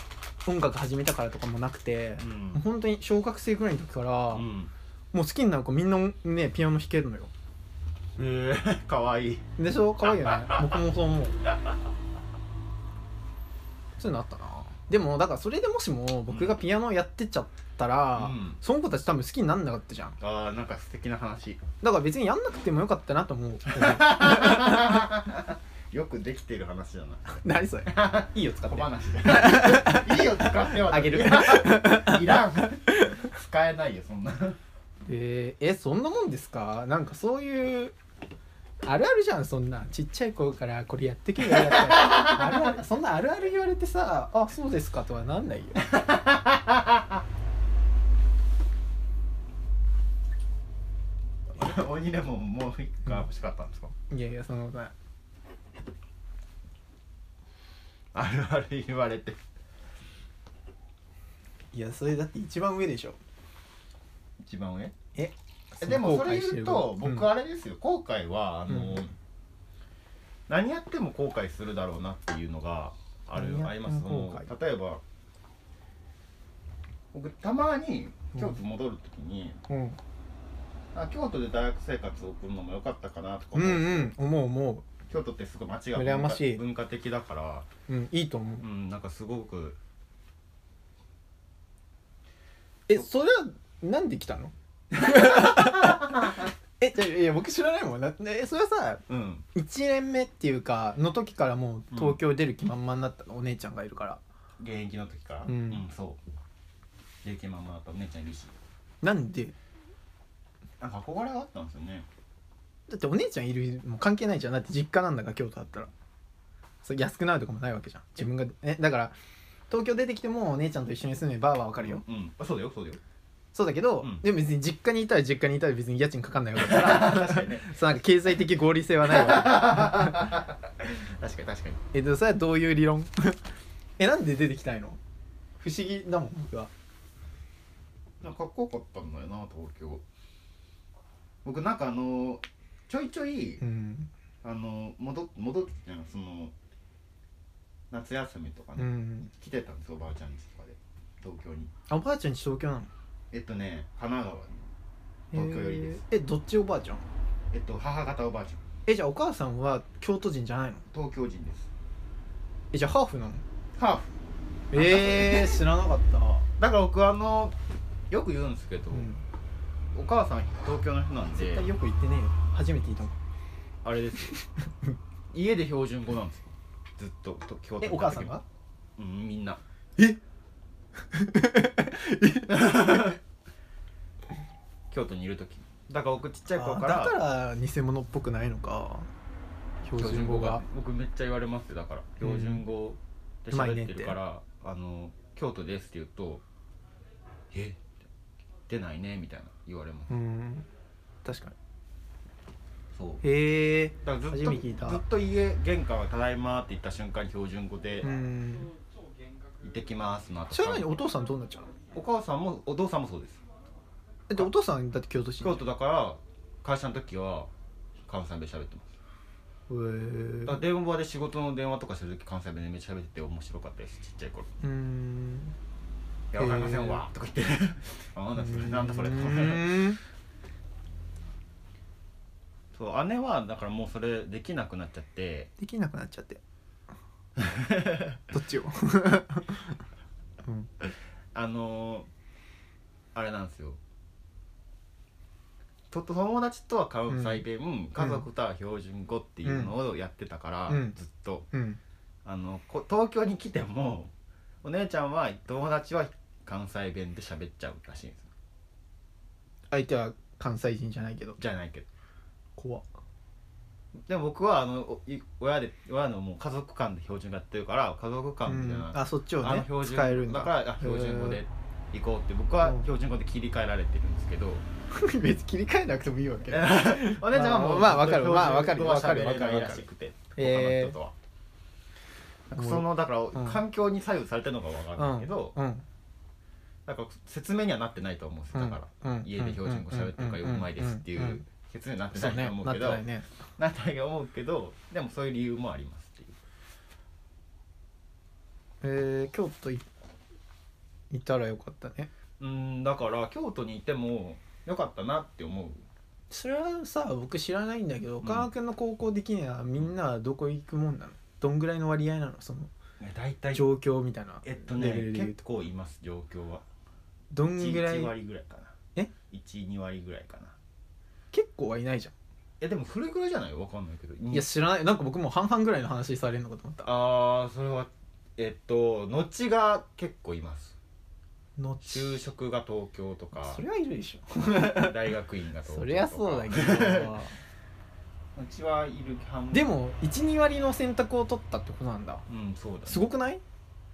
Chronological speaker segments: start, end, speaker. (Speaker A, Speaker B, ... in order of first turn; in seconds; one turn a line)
Speaker A: 0.5-4.5
Speaker B: 2.2-2.6
Speaker B: 4.3-4.7
Speaker A: 5.1-7.3
Speaker B: 8.2-9.4
Speaker A: 9.6-11.4
Speaker B: 10.1-10.7
Speaker A: 14.0-20.2
Speaker B: 16.3-16.6
Speaker B: 18.1-18.6
Speaker B: 20.2-21.6
Speaker A: 21.8-25.1
Speaker B: 23.7-34.6
Speaker A: 27.4-33.2
Speaker A: 35.1-38.0
Speaker A: 38.8-45.8
Speaker B: 41.5-42.8
Speaker B: 45.8-47.2
Speaker B: 51.5-53.9
Speaker A: 54.1-54.9
Speaker B: 58.1-59.4
Speaker A: 61.7-63.2
Speaker B: 64.4-65.0
Speaker A: 65.2-67.3
Speaker B: 65.8-69.2
Speaker A: 68.7-69.0
Speaker B: 70.5-75.0
Speaker A: 73.3-74.5
Speaker B: 77.1-79.6
Speaker A: 79.7-80.0
Speaker B: 80.9-84.1
Speaker A: 83.5-84.9
Speaker B: 85.1-87.7
Speaker A: 86.0-86.6
Speaker A: 87.9-88.7
Speaker B: 88.6-89.8
Speaker A: 92.9-104.2
Speaker B: 95.0-96.5
Speaker B: 99.1-99.5
Speaker B: 101.9-102.2
Speaker B: 104.6-106.2
Speaker A: 105.5-105.8
Speaker B: 107.2-108.5
Speaker A: 109.0-109.5
Speaker B: 110.8-112.1
Speaker A: 112.9-115.9
Speaker A: 116.8-119.2
Speaker A: 119.7-122.0
Speaker B: 121.8-123.0
Speaker A: 123.5-130.3
Speaker B: 126.6-127.7
Speaker B: 129.1-131.8
Speaker A: 131.9-133.4
Speaker A: 134.0-135.0
Speaker A: 135.6-136.7
Speaker B: 138.2-140.0
Speaker B: 141.4-143.6
Speaker A: 143.6-144.1
Speaker B: 144.4-146.5
Speaker B: 147.9-151.7
Speaker A: 148.8-149.3
Speaker A: 151.9-152.9
Speaker B: 153.3-154.7
Speaker A: 155.3-157.1
Speaker B: 155.3-156.0
Speaker B: 157.5-158.6
Speaker A: 158.9-160.9
Speaker B: 160.9-161.7
Speaker A: 162.7-163.4
Speaker B: 163.8-164.1
Speaker A: 164.7-166.5
Speaker B: 164.7-165.6
Speaker B: 166.6-167.6
Speaker B: 168.1-169.1
Speaker A: 168.9-169.2
Speaker B: 169.9-171.7
Speaker A: 171.3-173.2
Speaker B: 173.8-174.4
Speaker A: 174.3-175.0
Speaker B: 175.3-178.4
Speaker A: 177.8-178.4
Speaker B: 179.0-179.6
Speaker A: 181.1-183.1
Speaker B: 182.5-183.2
Speaker B: 184.9-187.2
Speaker A: 186.5-189.1
Speaker A: 189.8-190.6
Speaker B: 190.0-196.4
Speaker A: 192.2-192.6
Speaker A: 193.5-194.2
Speaker B: 197.5-198.0
Speaker B: 198.7-200.1
Speaker A: 200.1-200.7
Speaker A: 201.2-201.6
Speaker B: 202.9-203.2
Speaker A: 203.2-205.0
Speaker B: 204.0-208.1
Speaker A: 208.0-208.7
Speaker B: 209.6-210.9
Speaker A: 210.5-211.8
Speaker B: 211.9-213.4
Speaker A: 214.3-215.6
Speaker B: 215.4-217.5
Speaker B: 218.1-218.9
Speaker A: 219.7-220.6
Speaker B: 220.4-224.5
Speaker A: 224.6-225.6
Speaker B: 226.3-230.0
Speaker A: 226.4-227.0
Speaker A: 228.4-230.0
Speaker B: 232.7-235.5
Speaker A: 235.6-236.4
Speaker B: 237.4-238.3
Speaker A: 238.3-239.8
Speaker A: 240.4-240.7
Speaker B: 240.8-242.1
Speaker B: 243.2-243.8
Speaker B: 245.9-251.5
Speaker A: 247.1-247.4
Speaker A: 249.4-249.7
Speaker A: 250.7-250.9
Speaker A: 251.5-251.8
Speaker B: 252.2-254.1
Speaker B: 254.6-258.3
Speaker A: 259.7-261.4
Speaker B: 261.4-261.9
Speaker A: 262.6-262.9
Speaker B: 264.1-274.7
Speaker A: 268.5-271.4
Speaker A: 274.9-281.0
Speaker B: 276.5-281.1
Speaker A: 282.5-283.6
Speaker B: 282.5-285.6
Speaker A: 285.0-285.9
Speaker B: 286.9-293.0
Speaker A: 288.5-291.4
Speaker A: 292.1-293.3
Speaker B: 293.6-296.4
Speaker A: 298.8-299.9
Speaker A: 301.1-302.1
Speaker B: 302.4-305.8
Speaker A: 306.3-312.7
Speaker B: 308.2-308.5
Speaker B: 313.0-313.7
Speaker A: 313.5-315.4
Speaker B: 314.4-316.6
Speaker A: 317.3-318.1
Speaker B: 317.4-318.8
Speaker B: 319.3-320.6
Speaker A: 321.3-322.1
Speaker B: 322.6-324.5
Speaker A: 324.3-326.9
Speaker B: 326.8-330.8
Speaker A: 331.6-332.2
Speaker B: 331.9-333.6
Speaker A: 333.4-335.0
Speaker B: 334.5-337.1
Speaker A: 335.7-337.4
Speaker B: 338.4-339.8
Speaker A: 339.5-342.2
Speaker B: 342.3-343.1
Speaker A: 342.9-343.4